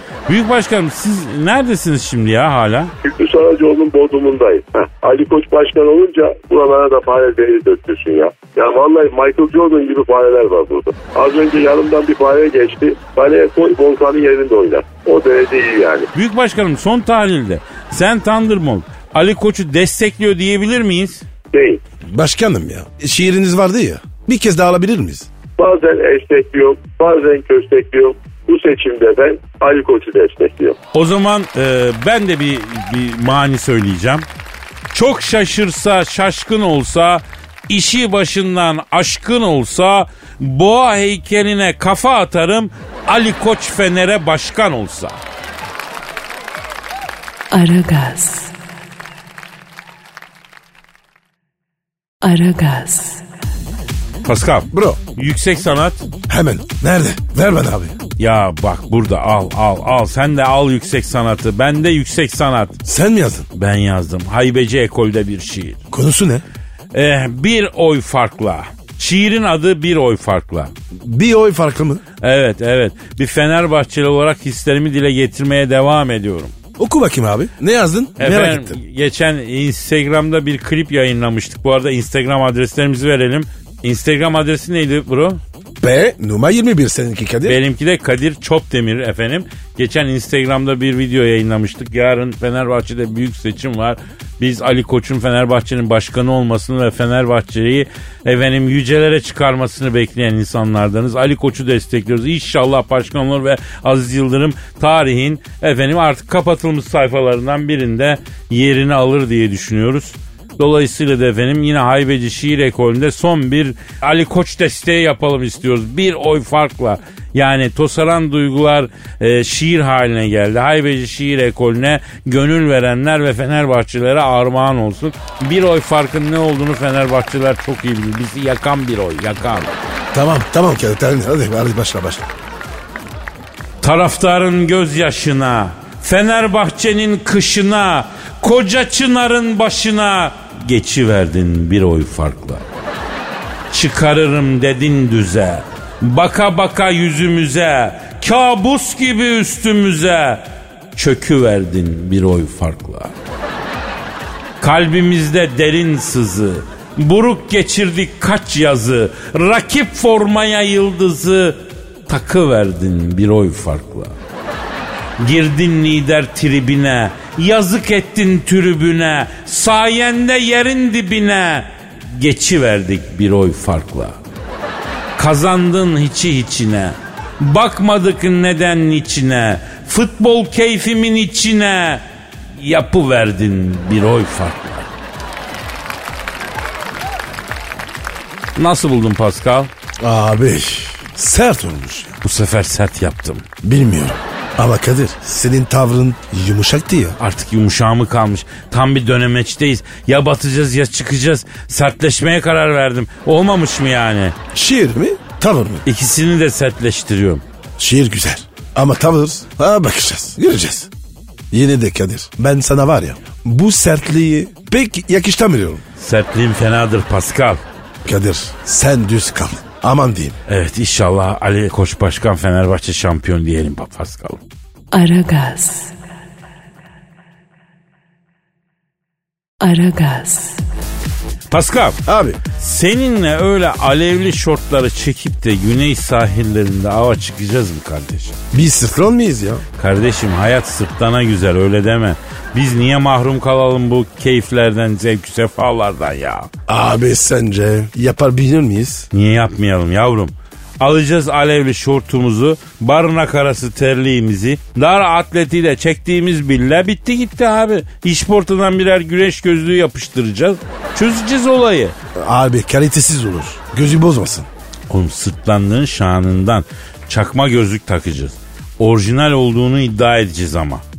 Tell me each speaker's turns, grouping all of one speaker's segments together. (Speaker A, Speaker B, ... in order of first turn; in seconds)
Speaker A: 0.3-2.9, 16.1-21.2, 30.9-34.2, 34.9-45.2, 54.2-56.0, 58.2-62.8, 63.5-65.8, 66.9-70.7, 72.2-76.5, 78.2-85.4, 87.4-129.8, 133.8-142.6, 143.7-153.1, 154.6-164.1, 165.2-174.2, 175.2-182.0, 182.6-184.9, 188.6-189.7, 192.2-193.4, 197.2-204.3, 205.8-207.4, 216.0-217.6, 220.5-224.4, 231.5-232.0, 232.6-238.4, 239.8-246.5, 249.1-261.9, 264.9-270.8
Speaker B: 3.0-16.1, 21.5-21.8, 25.6-30.8
Speaker C: 22.0-25.3, 54.7-55.0, 56.3-57.9, 62.8-63.5, 65.9-66.4, 70.9-72.0, 76.8-78.8, 85.8-87.6, 130.1-132.3, 190.0-192.2, 193.6-197.2, 204.5-205.8, 207.8-210.9, 211.5-215.8, 218.0-220.4, 232.0-232.4, 238.5-239.6, 246.7-249.1, 262.1-264.5
Speaker D: 47.5-48.5, 52.2-53.2, 224.9-225.9, 229.6-230.6